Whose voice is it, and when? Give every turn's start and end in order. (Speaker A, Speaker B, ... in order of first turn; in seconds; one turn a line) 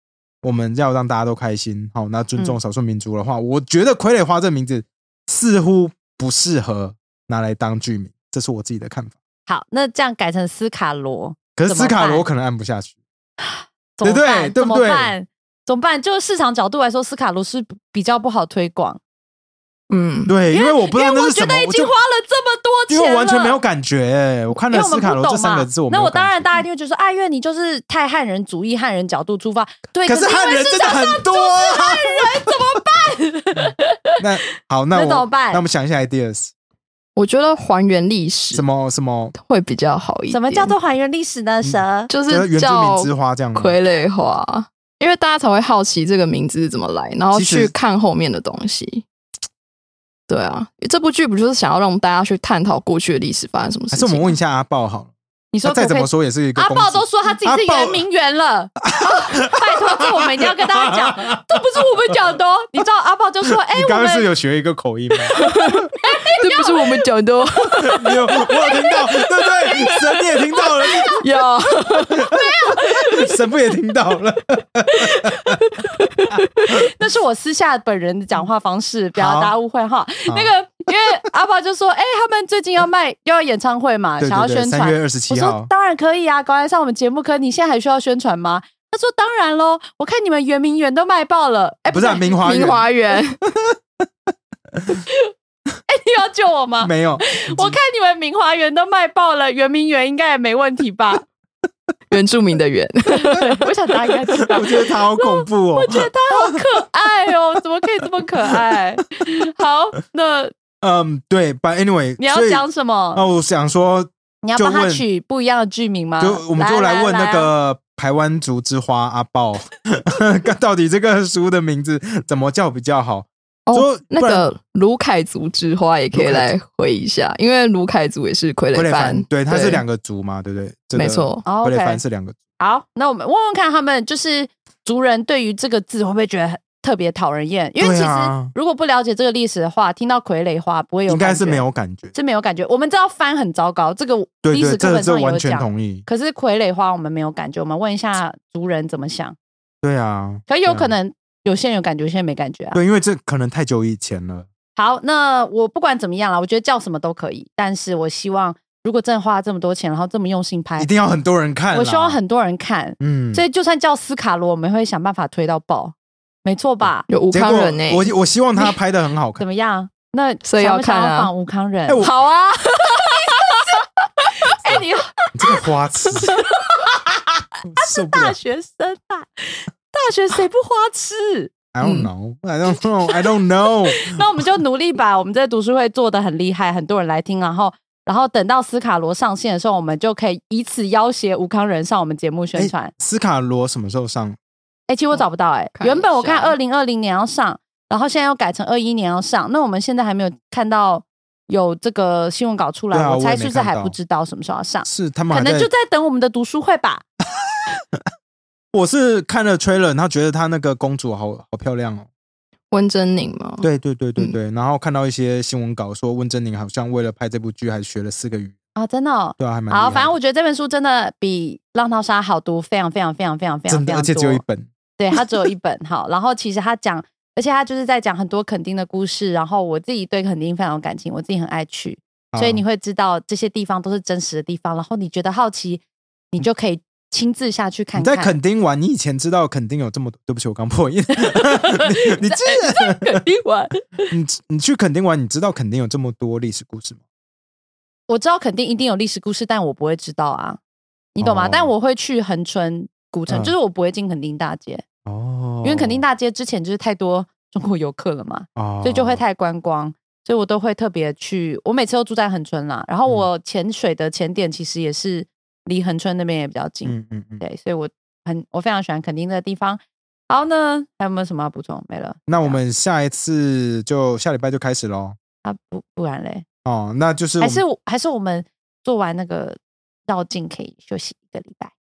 Speaker A: 0.4-9.2
Speaker B: 9.5-12.2
Speaker A: 11.6-13.0
Speaker B: 13.4-19.0
Speaker A: 14.0-15.1
Speaker C: 19.9-20.3
Speaker A: 20.3-21.9
Speaker B: 20.5-23.6
Speaker A: 22.9-26.6
Speaker B: 24.6-34.2
Speaker A: 30.1-32.5
Speaker A: 34.2-36.5
Speaker B: 34.9-35.6
Speaker C: 37.2-38.7
Speaker A: 38.5-39.4
Speaker C: 39.4-40.7
Speaker B: 40.3-42.1
Speaker A: 41.6-43.8
Speaker C: 42.1-49.0
Speaker A: 47.3-47.7
Speaker C: 50.3-54.3
Speaker A: 53.9-55.1
Speaker B: 55.5-64.3
Speaker A: 55.6-58.0
Speaker A: 58.8-61.6
Speaker A: 63.7-65.9
Speaker C: 65.4-68.1
Speaker B: 66.0-67.0
Speaker A: 67.8-71.2
Speaker B: 68.6-68.9
Speaker B: 69.6-69.9
Speaker B: 70.8-71.2
Speaker C: 71.2-72.3
Speaker A: 72.2-75.6
Speaker B: 72.2-73.3
Speaker B: 75.0-75.6
Speaker C: 76.1-76.4
Speaker A: 76.3-76.9
Speaker B: 76.8-92.4
Speaker A: 79.2-79.5
Speaker A: 84.2-85.7
Speaker A: 91.9-92.9
Speaker C: 92.4-93.4
Speaker A: 93.5-93.8
Speaker A: 94.8-95.0
Speaker B: 95.9-101.2
Speaker A: 96.8-97.8
Speaker C: 102.1-103.6
Speaker B: 103.1-110.5
Speaker A: 104.5-106.6
Speaker A: 110.8-115.0
Speaker B: 112.2-113.3
Speaker B: 114.4-117.5
Speaker A: 116.2-124.5
Speaker C: 123.7-129.8
Speaker A: 126.1-126.5
Speaker A: 128.7-132.4
Speaker C: 130.9-131.4
Speaker B: 131.4-132.0
Speaker B: 132.6-149.4
Speaker A: 137.8-138.5
Speaker A: 141.1-142.1
Speaker A: 144.4-146.1
Speaker A: 149.8-150.9
Speaker B: 150.5-152.8
Speaker A: 152.7-154.5
Speaker B: 154.8-160.9
Speaker A: 160.8-162.2
Speaker B: 161.7-167.1
Speaker A: 163.0-163.4
Speaker C: 167.1-168.1
Speaker A: 167.3-169.4
Speaker B: 169.4-172.0
Speaker C: 170.4-171.3
Speaker A: 171.9-172.1
Speaker C: 172.0-173.6
Speaker B: 173.0-175.2
Speaker A: 175.3-176.3
Speaker B: 176.3-181.5
Speaker A: 177.7-178.4
Speaker A: 181.7-184.2
Speaker B: 183.9-192.9
Speaker A: 192.6-194.4
Speaker B: 194.9-207.0
Speaker C: 195.8-196.6
Speaker A: 202.9-203.9
Speaker A: 204.8-205.7
Speaker A: 208.7-212.1
Speaker C: 212.7-213.7
Speaker A: 213.6-218.5
Speaker B: 218.8-224.4
Speaker A: 219.4-220.2
Speaker A: 223.7-224.7
Speaker B: 225.0-238.4
Speaker A: 232.3-232.6
Speaker A: 238.0-243.2
Speaker B: 241.2-244.1
Speaker A: 244.1-247.0
Speaker B: 248.1-250.6
Speaker B: 251.2-254.8
Speaker A: 251.2-251.7
Speaker A: 253.3-253.5
Speaker A: 255.1-256.0
Speaker B: 255.6-272.6
Speaker A: 258.6-259.2
Speaker A: 266.9-267.4
Speaker A: 272.3-275.2
Speaker B: 275.4-276.4
Speaker A: 276.6-277.6
Speaker B: 277.4-281.7